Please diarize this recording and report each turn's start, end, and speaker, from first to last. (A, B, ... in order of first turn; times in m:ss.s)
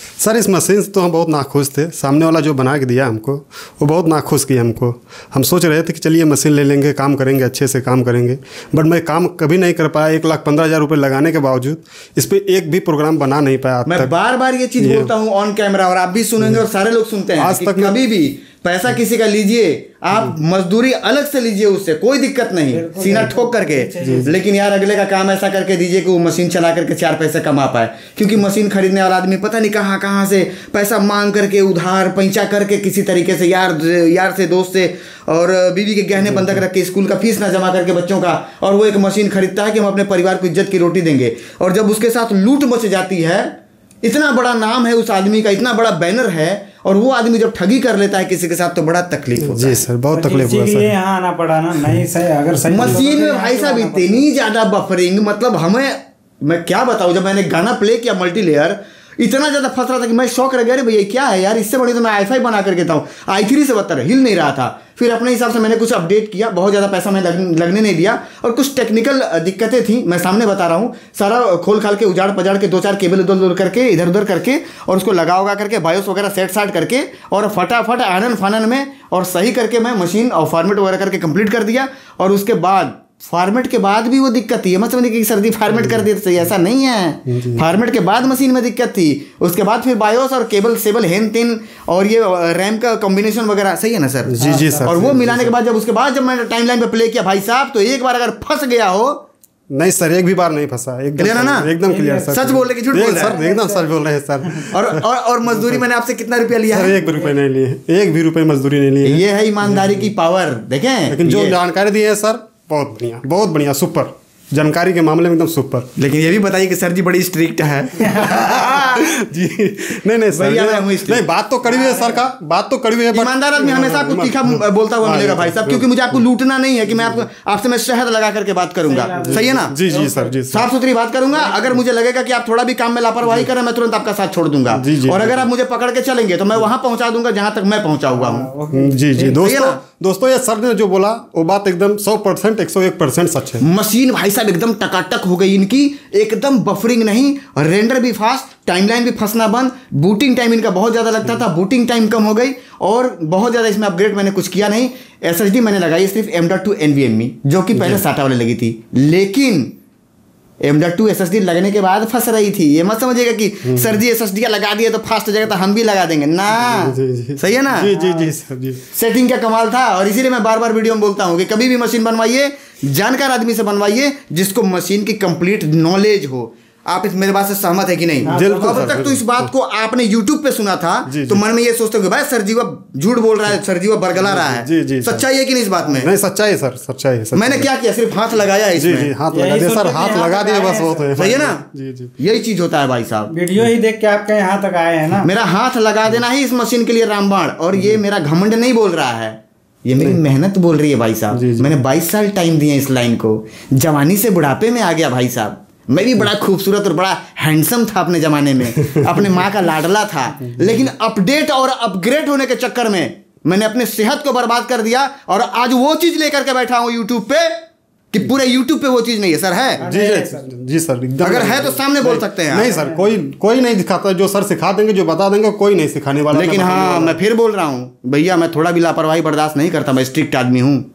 0:00.2-0:14.1 A
0:13.8-0:49.8 B
0:14.8-0:15.1 A
0:17.4-0:18.0 A
0:22.7-0:24.3 C
0:24.0-0:24.3 A
0:49.4-0:50.9 A
0:50.1-0:54.3 C
0:52.7-1:39.2 B
1:27.3-1:27.6 A
1:34.3-1:35.5 A
1:34.4-1:35.0 C
1:39.7-1:45.8 A
1:41.2-1:41.7 B
1:41.8-1:43.8 C
1:42.3-1:43.4 B
1:44.4-1:44.7 C
1:44.7-1:47.0 B
1:46.7-1:50.0 A
1:49.0-1:51.6 B
1:51.1-1:55.9 A
1:56.0-1:59.0 B
1:58.0-1:58.8 C
1:58.8-2:06.0 A
2:00.3-2:01.2 B
2:01.6-2:02.2 C
2:03.1-2:09.7 B
2:06.9-2:07.2 A
2:08.8-2:10.4 C
2:09.2-2:10.7 A
2:10.5-2:18.5 B
2:11.2-2:11.8 C
2:14.7-2:15.5 A
2:18.1-2:19.4 C
2:18.7-2:23.6 A
2:19.3-2:19.8 B
2:23.6-2:39.7 B
2:37.7-2:38.0 A
2:40.6-2:47.9 B
2:43.6-2:44.0 A
2:46.6-2:48.8 A
2:47.9-2:48.3 C
2:48.9-3:06.1 B
2:58.2-2:59.5 A
2:58.2-2:59.0 C
3:01.0-3:01.4 A
3:04.2-3:05.2 A
3:05.8-3:07.7 A
3:07.3-3:09.1 B
3:08.8-3:12.1 A
3:09.3-3:11.2 C
3:11.2-3:11.6 B
3:12.2-3:13.3 B
3:13.3-3:15.3 C
3:15.2-3:37.6 B
3:21.3-3:21.7 A
3:38.1-3:39.8 B
3:39.8-3:40.5 C
3:39.8-3:47.2 A
3:41.2-3:42.7 B
3:42.5-3:43.1 C
3:46.3-3:50.9 B